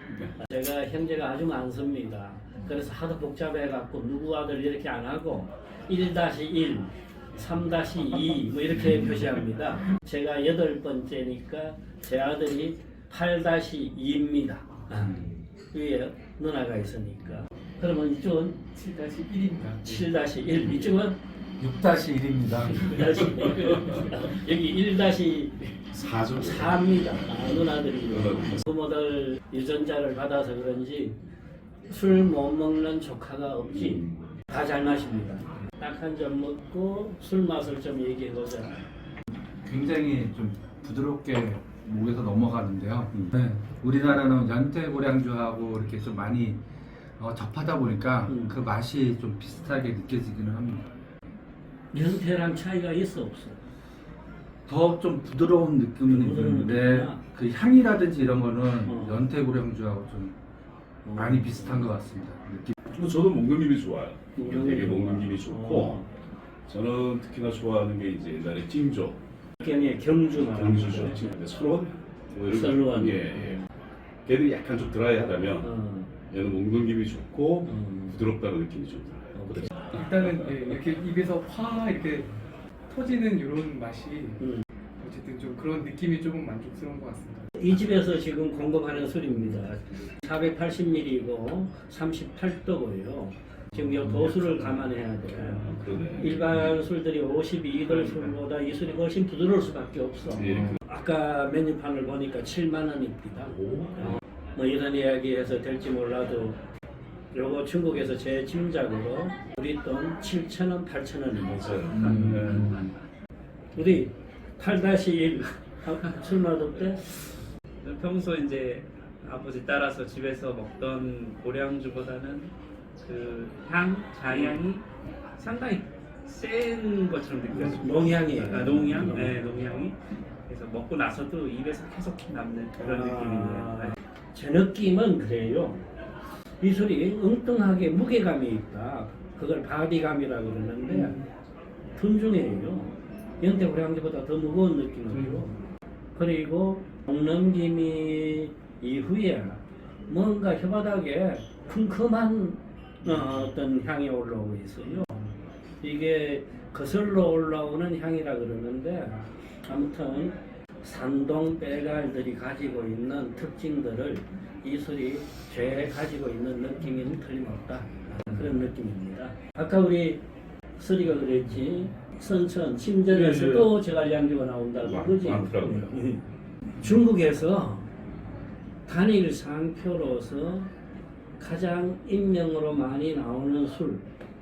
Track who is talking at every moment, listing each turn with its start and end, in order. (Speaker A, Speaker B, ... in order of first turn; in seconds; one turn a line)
Speaker A: 0.3-18.6
Speaker B: 18.7-19.9
Speaker A: 19.8-21.2
Speaker C: 21.6-23.0
Speaker A: 22.7-31.2
Speaker D: 25.9-26.9
Speaker D: 28.1-28.6
Speaker A: 31.9-38.8
Speaker D: 33.8-34.2
Speaker C: 39.6-46.6
Speaker C: 47.2-50.9
Speaker A: 48.3-48.5
Speaker A: 51.9-53.6
Speaker C: 54.7-60.3
Speaker A: 56.0-57.2
Speaker A: 58.9-59.2
Speaker A: 61.0-61.9
Speaker C: 61.1-62.7
Speaker D: 62.9-66.0
Speaker A: 64.3-66.1
Speaker D: 66.7-69.2
Speaker A: 69.6-71.2
Speaker D: 70.4-73.6
Speaker A: 72.5-73.7
Speaker D: 74.2-75.7
Speaker A: 75.6-76.1
Speaker D: 76.3-80.0
Speaker A: 77.6-78.2
Speaker A: 79.3-79.7
Speaker B: 79.9-82.3
Speaker B: 82.9-84.4
Speaker B: 85.0-87.5
Speaker A: 87.6-106.6
Speaker D: 95.7-96.7
Speaker E: 97.9-98.3
Speaker D: 100.3-100.8
Speaker D: 103.6-103.9
Speaker A: 107.3-112.3
Speaker D: 111.5-112.8
Speaker C: 111.9-112.9
Speaker A: 113.7-117.3
Speaker E: 117.8-122.5
Speaker E: 123.0-124.8
Speaker A: 124.3-124.6
Speaker E: 125.4-133.9
Speaker A: 127.5-129.4
Speaker A: 132.8-135.8
Speaker A: 136.6-141.2
Speaker A: 141.9-145.5
Speaker A: 146.1-155.2
Speaker A: 155.8-170.2
Speaker A: 170.8-176.2
Speaker D: 173.1-173.7
Speaker D: 174.8-176.0
Speaker A: 176.8-177.9
Speaker A: 178.8-180.7
Speaker A: 181.4-184.0